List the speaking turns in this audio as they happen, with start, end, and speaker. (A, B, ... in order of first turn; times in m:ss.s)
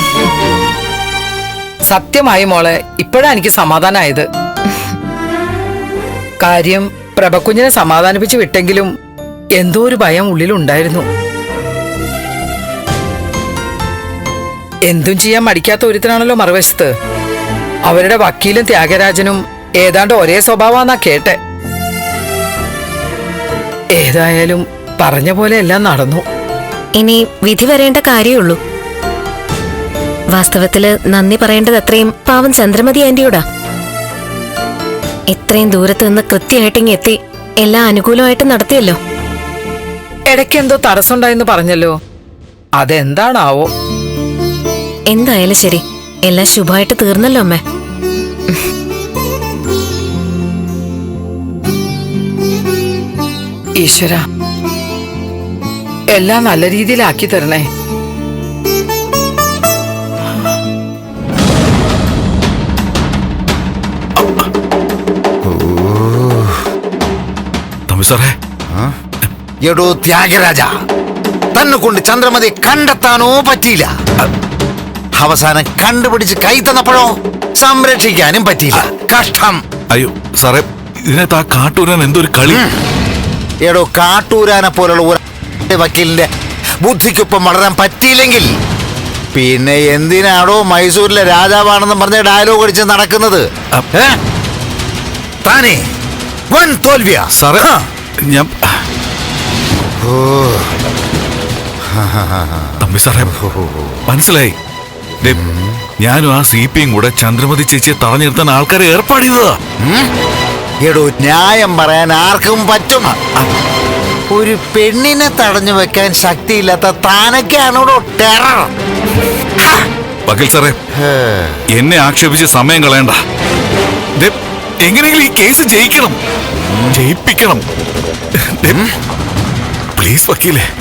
0:01.9-0:04.2 A
0:06.4-0:08.9 A
0:09.6-0:11.1 A
0:14.9-0:16.9 A
0:17.9-0:21.4 A
0:24.0-0:26.2 A
0:27.0-0:28.6 B
0:30.3-0:33.4 B
0:35.3-0:39.0 B
0:40.3-0:41.9 A
0:42.8-0:43.7 A
0:45.1-0:47.6 B
0:53.8-0:54.2 A
0:56.1-0:57.6 A
1:05.4-1:06.6 C
1:07.9-1:08.3 D
1:09.6-1:10.7 C
1:11.6-1:13.9 C
1:15.2-1:19.6 C
1:19.9-1:22.6 D
1:23.6-1:25.2 C
1:25.7-1:26.3 C
1:26.8-1:28.5 C
1:29.3-1:34.2 C
1:35.4-1:35.8 C
1:36.5-1:37.8 C
1:37.3-1:37.6 D
1:40.0-1:40.7 C
1:41.9-1:43.9 C
1:42.8-1:43.3 D
1:44.1-1:44.5 D
1:45.3-1:45.6 C
1:46.0-1:49.6 D
1:49.8-1:50.1 C
1:50.8-1:53.2 C
1:54.3-1:58.7 C
2:00.3-2:00.8 D
2:01.0-2:01.5 C
2:01.8-2:03.2 D
2:04.8-2:06.1 D
2:06.6-2:07.0 C
2:06.9-2:07.6 D
2:10.0-2:10.6 D